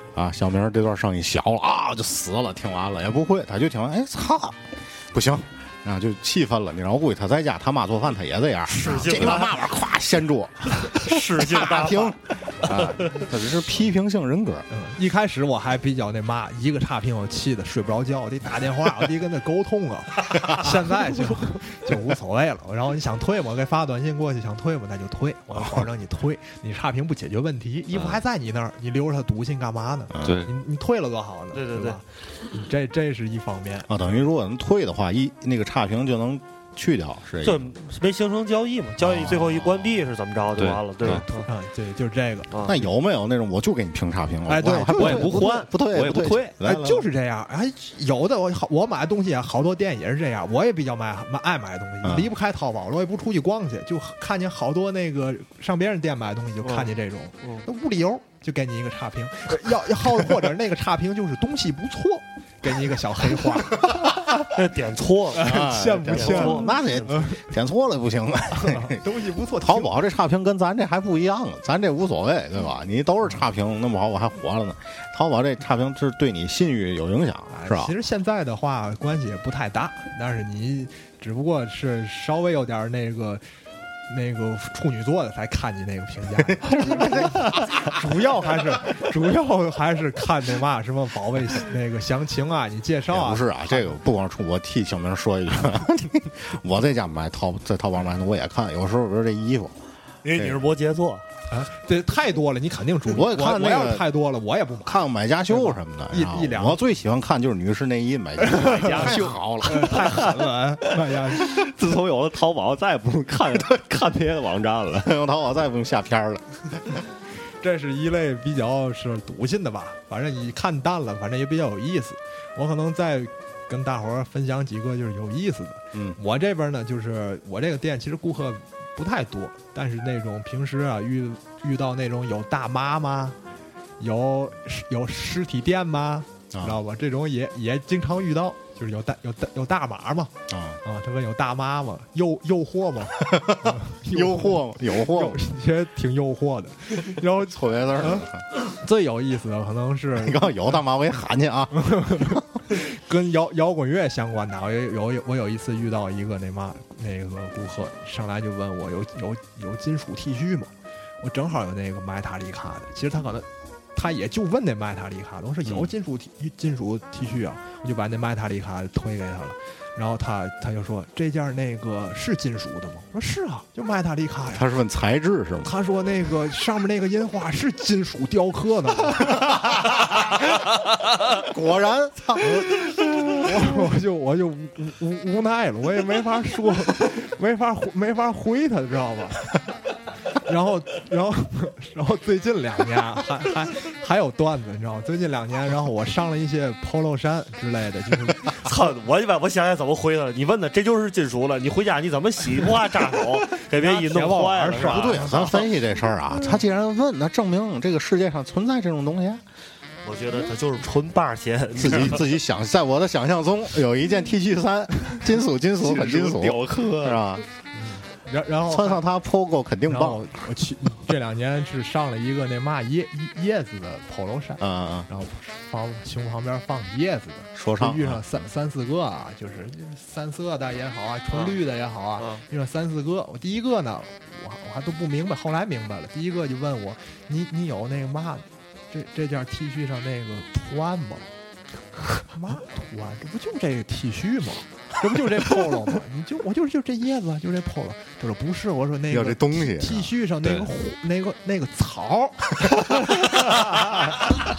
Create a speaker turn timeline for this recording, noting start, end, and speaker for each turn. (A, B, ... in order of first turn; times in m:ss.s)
0:00.1-0:14.7 A
0:08.7-0:09.5 B
0:09.0-0:09.4 C
0:10.8-0:13.2 B
0:14.7-0:33.9 C
0:25.5-0:25.8 A
0:27.9-0:28.2 D
0:30.1-0:30.4 A
0:30.2-0:30.5 D
0:31.5-0:32.0 B
0:33.9-0:37.7 A
0:37.4-0:41.5 B
0:39.0-0:39.8 A
0:40.6-0:41.2 D
0:41.3-0:42.5 C
0:42.5-0:42.8 B
0:42.6-0:47.0 A
0:44.5-0:45.6 C
0:44.9-0:46.5 D
0:46.6-1:03.9 C
0:52.0-0:52.3 A
0:56.6-0:56.9 B
1:04.4-1:05.5 B
1:05.3-1:07.5 C
1:05.4-1:09.0 A
1:06.1-1:07.1 B
1:08.5-1:09.9 C
1:09.6-1:17.9 A
1:17.5-1:23.4 C
1:24.1-1:33.9 C
1:26.4-1:27.9 A
1:33.1-1:39.8 A
1:40.2-1:41.2 B
1:40.3-1:40.6 A
1:41.5-1:46.8 C
1:43.1-1:44.1 A
1:44.8-1:50.2 A
1:48.4-1:51.5 C
1:48.6-1:50.5 D
1:51.0-1:55.1 D
1:55.0-1:57.0 A
1:57.6-2:13.4 C
2:14.0-2:30.6 C
2:16.5-2:16.8 A
2:20.5-2:20.8 A
2:23.2-2:25.4 A
2:27.5-2:28.4 A
2:30.2-2:32.4 A
2:31.7-2:40.7 C
2:41.2-2:54.6 C
2:45.6-2:45.9 A
2:54.5-2:55.7 A
2:55.6-2:59.4 C
3:01.3-3:03.6 A
3:03.3-3:09.5 C
3:10.4-3:18.6 C
3:18.6-3:25.4 B
3:23.7-3:25.6 C
3:24.7-3:29.4 A
3:30.0-3:32.3 B
3:31.8-3:37.4 A
3:35.8-3:37.2 D
3:37.7-3:39.0 C
3:38.7-3:40.3 A
3:39.9-4:01.3 C
3:44.6-3:45.1 A
3:47.5-3:48.2 A
3:51.3-3:51.6 B
3:52.2-3:52.4 B
4:02.1-4:12.8 C
4:09.1-4:10.1 A
4:10.4-4:10.7 D
4:13.6-4:13.9 C